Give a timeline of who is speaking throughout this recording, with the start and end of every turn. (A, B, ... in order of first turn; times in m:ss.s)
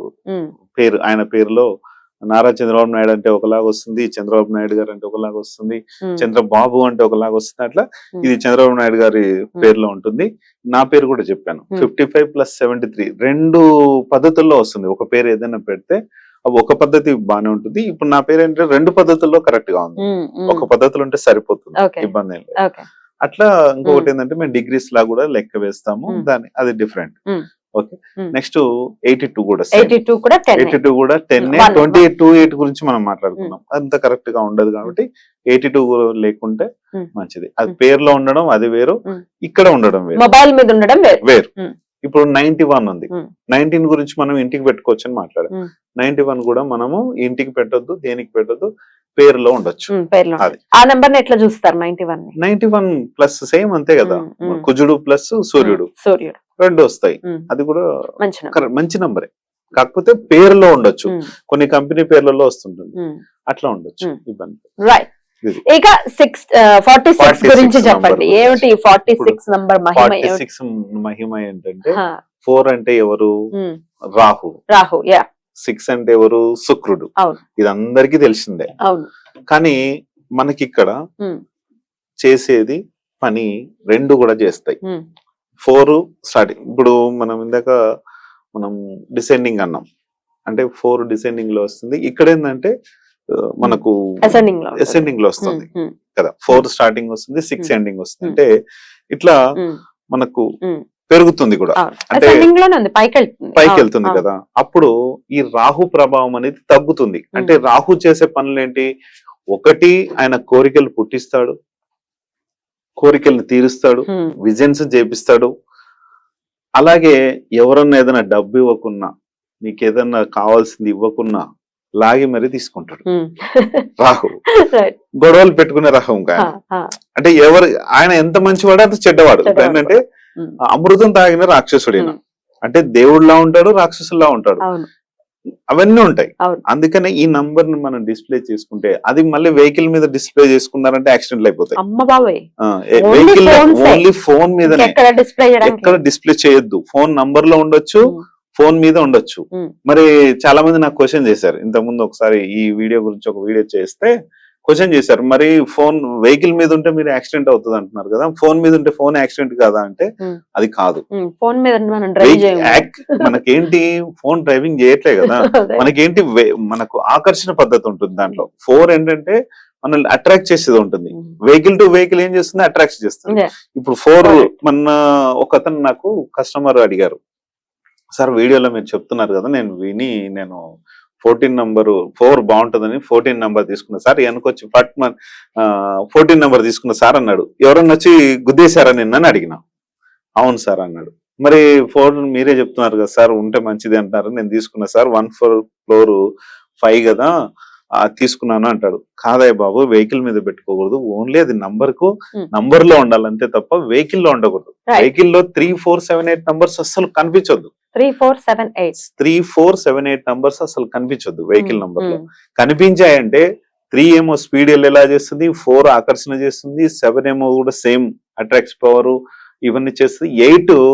0:00.8-0:01.7 A
0:02.3-0:22.6 A
0:20.0-0:20.6 B
0:21.8-0:22.8 B
0:23.2-0:27.1 A
0:27.8-0:29.9 A
0:29.8-0:30.8 B
0:30.6-0:40.2 A
0:31.4-0:32.0 B
0:40.2-0:41.7 B
0:41.2-0:41.5 A
0:42.0-0:50.6 A
0:49.9-0:52.3 B
0:52.4-0:55.9 A
0:54.0-0:54.6 B
0:55.6-0:56.4 B
0:56.6-0:57.8 A
0:58.2-0:58.6 B
0:58.5-1:02.9 A
1:03.5-1:04.7 A
1:04.8-1:05.1 B
1:05.7-1:10.4 B
1:07.2-1:09.4 A
1:10.0-1:13.3 A
1:14.2-1:14.6 A
1:14.7-1:15.2 B
1:15.6-1:18.7 A
1:19.5-1:19.8 A
1:20.4-1:20.9 A
1:22.2-1:24.8 A
1:25.6-1:27.8 A
1:28.6-1:29.8 A
1:30.5-1:32.7 A
1:33.3-1:38.5 A
1:33.6-1:35.9 B
1:39.1-1:39.4 A
1:40.1-1:40.5 A
1:41.1-1:42.4 A
1:41.8-1:44.2 B
1:43.6-1:48.9 A
1:49.5-1:51.5 A
1:53.0-1:55.5 A
1:54.1-1:54.3 B
1:56.8-1:59.1 A
1:59.6-2:01.4 A
2:02.0-2:03.0 A
2:03.1-2:03.9 B
2:04.0-2:04.4 A
2:04.6-2:05.0 B
2:05.2-2:06.5 A
2:06.4-2:06.9 B
2:07.2-2:10.0 A
2:09.4-2:10.5 B
2:10.7-2:14.6 A
2:15.7-2:21.8 A
2:21.8-2:22.4 B
2:22.6-2:24.9 A
2:23.0-2:24.0 B
2:24.6-2:26.0 B
2:25.6-2:34.1 A
2:34.7-2:41.0 A
2:41.2-2:43.3 B
2:42.2-2:57.2 A
2:45.2-2:45.9 B
2:54.2-2:54.5 B
2:58.1-3:00.6 A
3:01.2-3:09.6 A
3:10.4-3:16.2 A
3:16.8-3:17.3 A
3:18.0-3:27.7 A
3:27.9-3:28.9 B
3:29.0-3:40.8 A
3:31.6-3:32.2 B